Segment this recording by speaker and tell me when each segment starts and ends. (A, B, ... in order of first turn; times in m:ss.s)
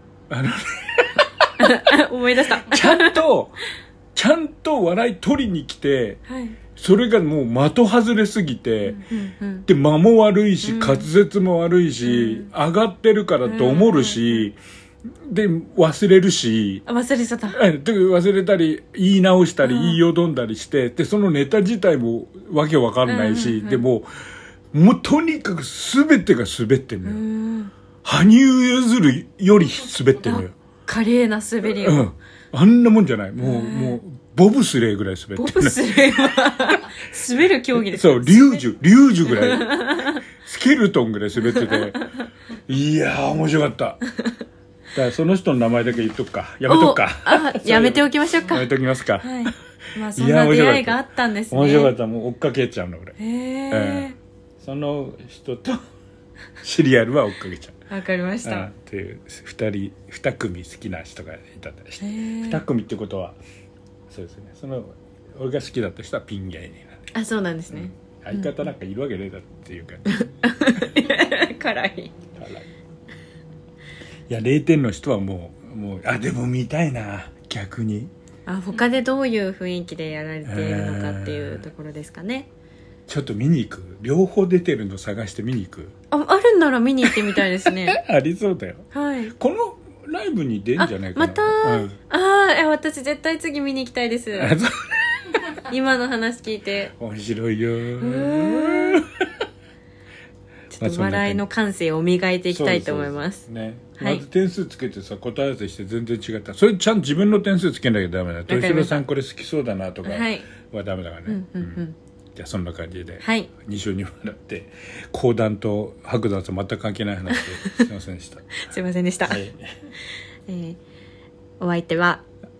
0:00.3-0:01.5 A
0:01.6-0:03.2 B
0:02.6-0:03.6 A
0:04.1-0:06.2 A
0:06.3-0:06.6 B
0:06.8-0:09.0 A
0:08.8-0:09.6 B
0:09.6-0:14.6 A
0:10.6-0:11.1 B
0:12.0-0:12.5 B
0:13.4-0:14.5 B
0:15.2-0:16.8 A
0:16.8-0:17.6 B
0:17.5-0:24.1 A
0:19.6-0:20.0 B
0:23.0-0:23.8 B
0:24.7-0:27.2 A
0:27.0-0:27.7 B
0:28.0-0:30.5 A
0:30.2-0:32.1 B
0:31.6-0:36.0 A
0:33.4-0:34.0 B
0:35.3-0:38.6 B
0:37.9-0:42.1 A
0:39.2-0:40.2 B
0:41.4-0:42.0 B
0:42.7-0:44.0 A
0:44.9-0:49.6 A
0:46.7-0:48.6 B
0:49.2-0:51.9 B
0:50.2-0:53.2 A
0:53.2-0:54.2 B
0:53.7-0:55.8 A
0:56.6-0:57.8 A
0:57.9-0:58.7 B
0:58.4-1:03.4 A
1:02.0-1:02.6 B
1:04.1-1:07.0 A
1:07.1-1:08.6 B
1:07.7-1:10.2 A
1:10.1-1:12.1 B
1:12.4-1:12.6 A
1:14.3-1:18.1 A
1:18.4-1:22.5 B
1:20.4-1:21.6 A
1:23.1-1:25.9 A
1:26.1-1:28.0 B
1:27.1-1:32.0 A
1:28.9-1:29.3 B
1:30.8-1:34.5 B
1:34.4-1:35.5 A
1:35.6-1:36.9 B
1:37.0-1:39.3 A
1:38.0-1:39.0 B
1:40.7-1:43.4 B
1:40.8-1:41.4 A
1:42.5-1:58.5 A
1:44.0-1:44.2 B
1:48.5-1:49.0 B
1:50.0-1:50.5 B
1:51.3-1:51.9 B
1:53.2-1:53.5 B
1:57.3-1:57.8 B
1:58.6-1:59.4 B
1:59.2-1:59.7 A
2:00.5-2:00.8 B
2:01.6-2:02.2 B